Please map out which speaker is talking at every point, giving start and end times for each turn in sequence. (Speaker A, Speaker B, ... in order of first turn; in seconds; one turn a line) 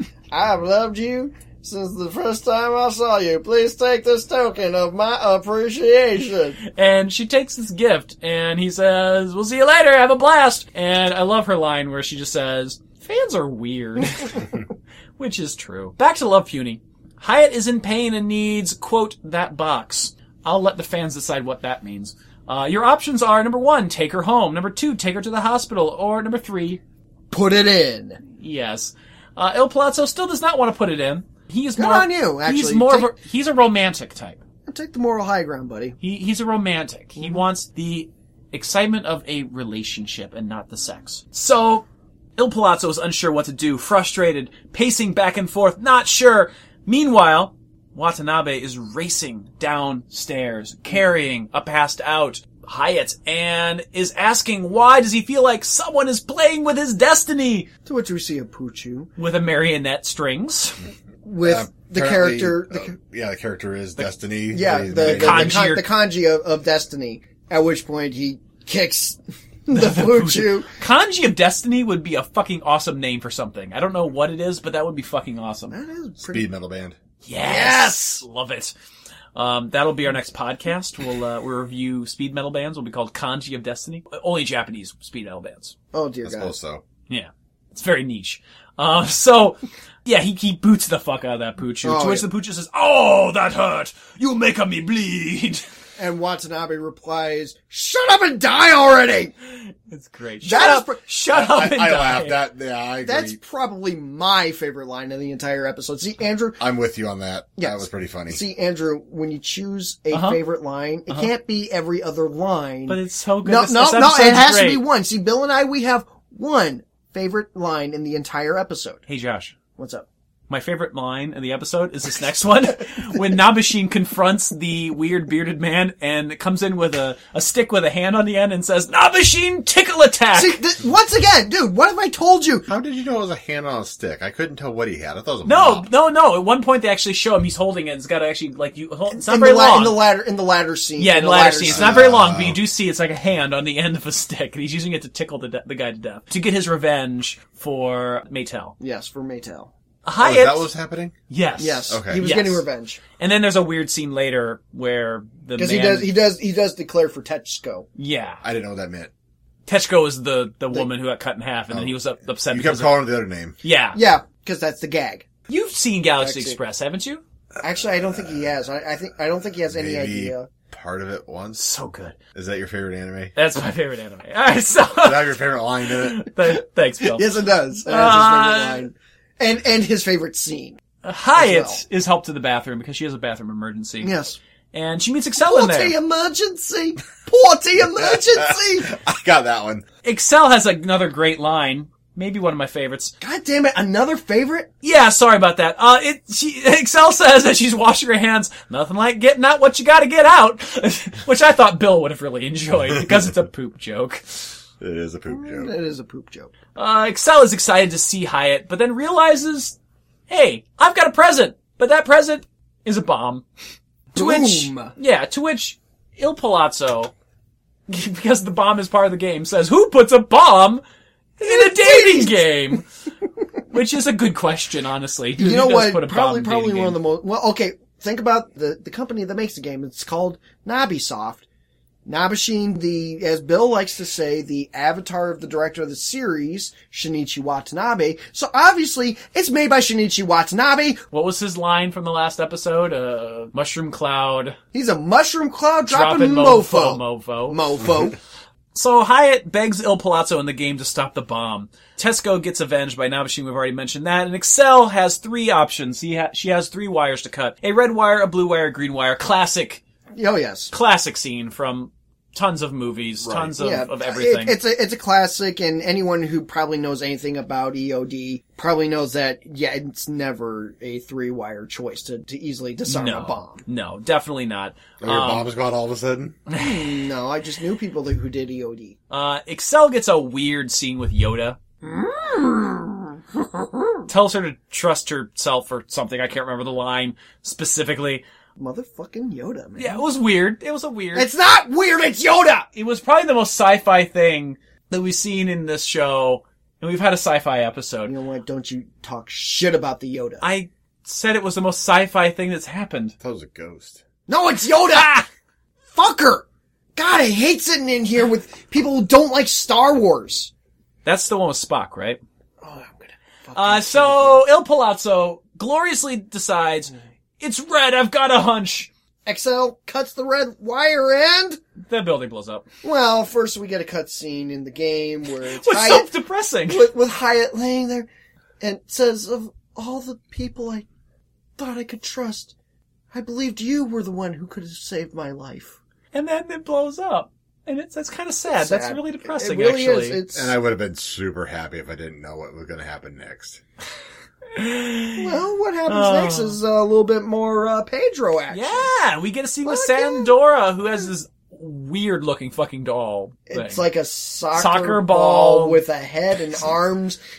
Speaker A: 0.3-6.6
Speaker B: 6.6-14.6
Speaker B: 15.2-26.8
Speaker A: 27.3-28.2
Speaker B: 28.3-34.4
Speaker A: 31.8-33.1
Speaker A: 34.7-36.0
Speaker B: 36.0-41.8
Speaker B: 42.4-57.7
Speaker A: 57.9-59.1
Speaker B: 59.2-60.8
Speaker A: 61.2-62.9
Speaker C: 61.4-65.6
Speaker A: 64.5-70.7
Speaker B: 65.0-65.9
Speaker B: 69.7-75.7
Speaker A: 75.7-76.5
Speaker C: 76.2-77.0
Speaker B: 77.2-78.7
Speaker A: 77.4-78.2
Speaker B: 79.3-85.7
Speaker A: 85.9-86.5
Speaker C: 86.2-86.8
Speaker B: 87.1-95.6
Speaker A: 91.8-92.3
Speaker A: 96.0-99.3
Speaker B: 99.9-102.4
Speaker A: 100.4-101.0
Speaker C: 101.3-103.4
Speaker A: 103.0-106.6
Speaker C: 106.6-108.4
Speaker A: 107.6-119.0
Speaker B: 110.1-110.4
Speaker B: 112.9-114.8
Speaker B: 119.1-119.5
Speaker A: 119.8-120.0
Speaker B: 120.5-130.6
Speaker A: 130.3-132.7
Speaker C: 132.7-135.9
Speaker B: 135.4-140.0
Speaker A: 139.1-142.1
Speaker B: 141.0-148.7
Speaker C: 141.7-142.6
Speaker A: 148.8-149.7
Speaker B: 150.0-150.7
Speaker C: 150.2-151.1
Speaker B: 151.3-152.7
Speaker A: 151.6-153.0
Speaker C: 151.9-152.2
Speaker B: 153.2-156.1
Speaker A: 155.6-157.8
Speaker B: 158.0-158.4
Speaker C: 158.4-159.1
Speaker B: 159.7-163.1
Speaker C: 161.7-163.5
Speaker B: 163.6-164.0
Speaker A: 163.9-165.3
Speaker B: 165.5-167.2
Speaker A: 166.2-166.6
Speaker A: 167.6-170.5
Speaker C: 169.7-171.6
Speaker B: 171.6-172.2
Speaker C: 172.3-173.3
Speaker B: 173.3-177.3
Speaker C: 175.0-176.3
Speaker A: 177.1-180.8
Speaker B: 177.9-178.8
Speaker B: 181.0-184.1
Speaker A: 181.3-181.8
Speaker A: 184.0-184.4
Speaker B: 184.7-185.9
Speaker A: 185.4-188.9
Speaker C: 188.0-189.8
Speaker B: 190.0-193.1
Speaker A: 193.2-194.7
Speaker B: 194.8-204.2
Speaker C: 204.8-205.7
Speaker A: 205.3-206.5
Speaker B: 206.8-209.8
Speaker B: 210.3-213.4
Speaker B: 214.1-217.1
Speaker A: 214.1-214.9
Speaker B: 217.9-220.8
Speaker B: 221.4-222.8
Speaker A: 221.4-222.8
Speaker B: 223.7-227.0
Speaker A: 225.4-231.4
Speaker A: 232.1-241.0
Speaker B: 241.1-244.6
Speaker A: 244.7-248.2
Speaker B: 245.9-247.6
Speaker B: 248.7-259.8
Speaker A: 260.1-260.7
Speaker B: 260.7-264.6
Speaker C: 263.2-263.5
Speaker A: 263.6-273.6
Speaker B: 272.9-275.5
Speaker C: 275.0-276.4
Speaker B: 276.5-277.0
Speaker A: 276.5-278.9
Speaker B: 279.1-281.6
Speaker A: 281.8-284.1
Speaker B: 284.1-288.2
Speaker A: 288.6-290.0
Speaker B: 289.8-291.3
Speaker A: 291.1-292.7
Speaker B: 292.7-298.1
Speaker A: 298.1-300.5
Speaker B: 300.4-303.1
Speaker C: 303.2-304.0
Speaker A: 304.3-305.2
Speaker B: 304.9-305.2
Speaker A: 305.9-310.5
Speaker B: 311.0-312.2
Speaker A: 312.6-314.4
Speaker B: 313.5-318.9
Speaker A: 319.2-321.6
Speaker B: 321.9-322.6
Speaker A: 322.8-326.1
Speaker B: 325.4-326.9
Speaker A: 326.7-328.1
Speaker A: 328.6-330.9
Speaker A: 331.6-332.5
Speaker A: 333.1-335.8
Speaker B: 336.1-340.2
Speaker A: 338.5-340.5
Speaker C: 340.3-343.6
Speaker B: 344.5-346.6
Speaker A: 345.2-348.9
Speaker B: 348.5-353.8
Speaker A: 349.6-350.3
Speaker A: 353.5-357.2
Speaker B: 354.5-355.8